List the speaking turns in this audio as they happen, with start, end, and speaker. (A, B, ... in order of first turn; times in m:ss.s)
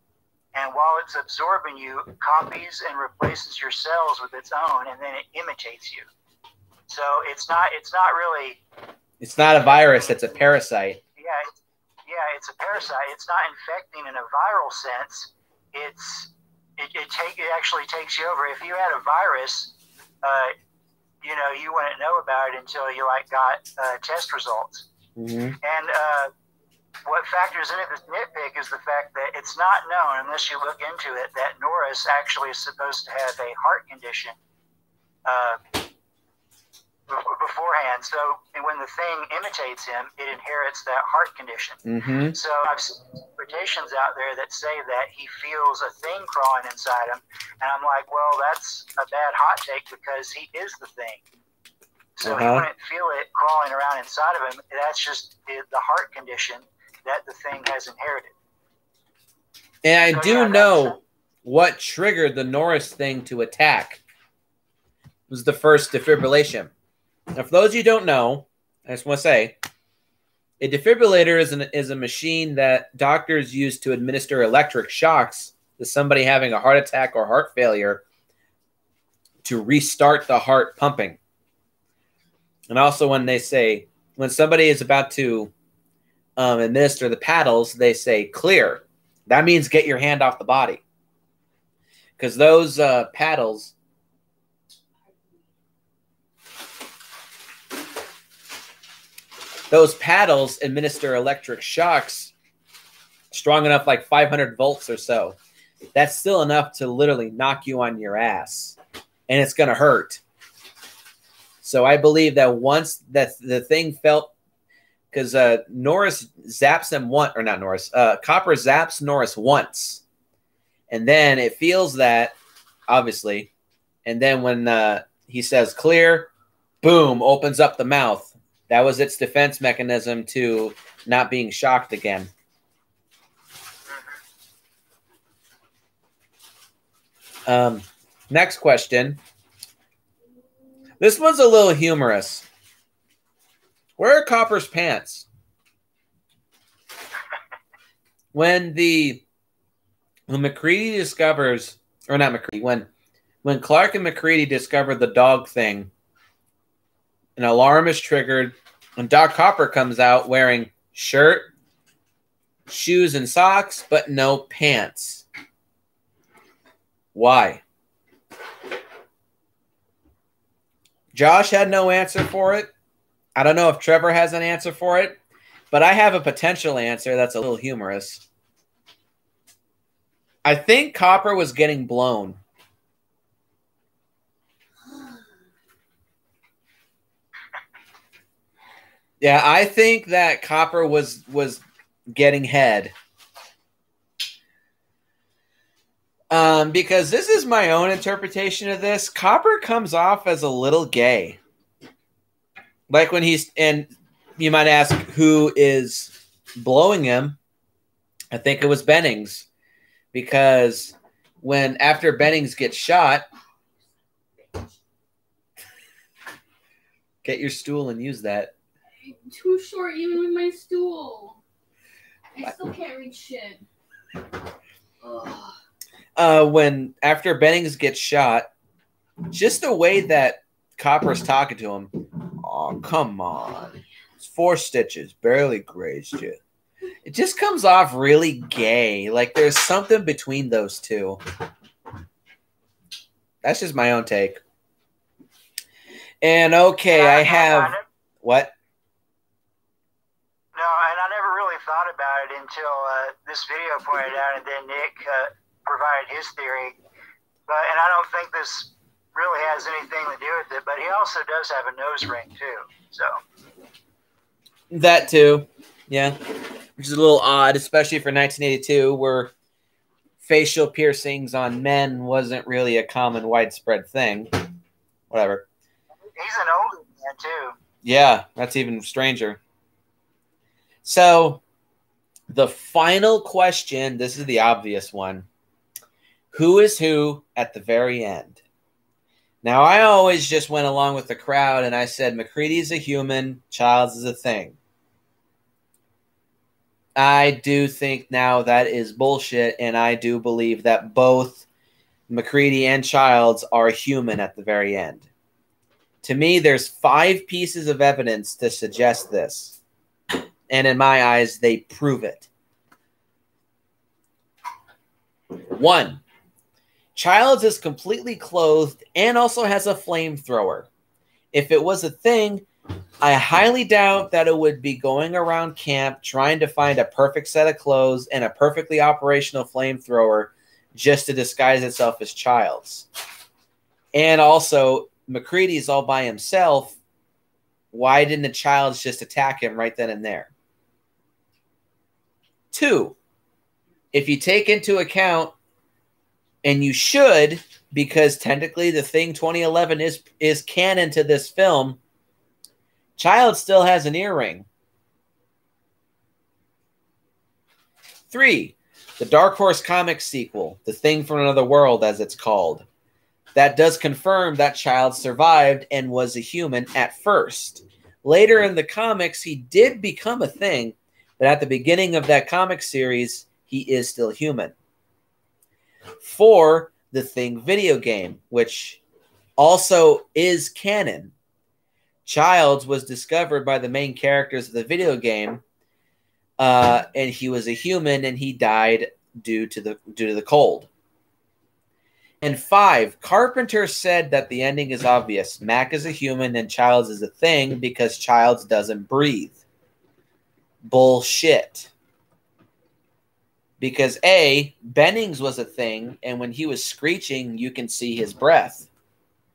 0:00.5-0:06.1 A
0:06.9-0:08.6 A
0:09.2-0:11.0 B
0:11.2-0:20.5 A
0:21.2-0:24.9 A
0:25.2-0:25.6 B
0:25.6-0:26.3 A
0:27.0-0:34.4 A
0:35.2-0:35.6 A
0:37.1-0:41.8 A
0:41.8-0:42.4 B
0:42.3-0:51.2 A
0:52.2-0:58.3 A
0:52.2-0:52.7 B
0:59.8-1:04.0 B
1:00.1-1:01.0 A
1:05.3-1:06.7 B
1:07.3-1:09.6 B
1:10.6-1:18.0 B
1:19.4-1:21.2 B
1:22.7-1:25.5 B
1:26.4-1:30.8 B
1:32.2-1:33.7 B
1:35.0-1:35.4 C
1:39.7-1:42.3 B
1:43.3-1:45.4 B
1:45.9-1:50.2 B
1:51.6-1:54.3 B
1:55.1-2:00.0 B
2:00.9-2:02.3 B
2:02.9-2:03.5 B
2:04.0-2:06.3 B
2:06.8-2:12.3 B
2:17.5-2:19.2 B
2:21.0-2:22.4 B
2:24.0-2:25.3 B
2:28.3-2:29.2 B
2:30.3-2:32.9 B
2:33.4-2:35.9 B
2:37.4-2:41.5 B
2:42.7-2:45.2 B
2:47.1-2:47.6 B
2:51.1-2:52.7 B
2:53.4-2:55.2 B
2:55.7-2:58.2 B
3:00.4-3:02.4 B
3:09.2-3:12.9 B
3:16.3-3:21.4 B
3:22.9-3:27.4 B
3:28.3-3:29.5 B
3:30.1-3:33.3 B
3:37.2-3:38.5 B
3:39.0-3:41.4 C
3:42.3-3:43.6 C
3:45.0-3:45.5 C
3:46.2-3:48.5 B
3:49.3-3:56.4 B
3:57.0-4:01.2 B
4:03.4-4:04.4 B
4:06.2-4:08.5 B
4:06.9-4:07.8 A
4:10.5-4:16.8 A
4:17.5-4:23.2 A
4:24.7-4:26.2 B
4:26.8-4:29.3 B
4:30.2-4:34.3 B
4:35.1-4:35.4 B
4:36.1-4:37.5 A
4:37.8-4:39.4 B
4:40.8-4:41.4 B
4:42.3-4:45.3 B
4:46.3-4:48.4 B
4:49.4-4:54.6 B
4:57.0-5:01.4 B
5:02.1-5:05.0 B
5:06.0-5:09.6 B
5:10.5-5:12.3 B
5:15.5-5:16.0 B
5:17.0-5:20.7 B
5:21.3-5:22.4 B
5:23.0-5:32.9 B
5:33.9-5:36.8 B
5:37.7-5:40.3 B
5:42.5-5:43.0 B
5:43.9-5:45.3 B
5:46.4-5:51.8 B
5:53.0-5:54.5 B
5:58.1-6:02.6 B
6:03.3-6:14.5 B
6:16.0-6:18.8 B
6:19.4-6:21.1 B
6:22.0-6:25.4 B
6:26.4-6:30.7 B
6:32.2-6:39.4 B
6:40.6-6:41.7 B
6:43.6-6:48.7 B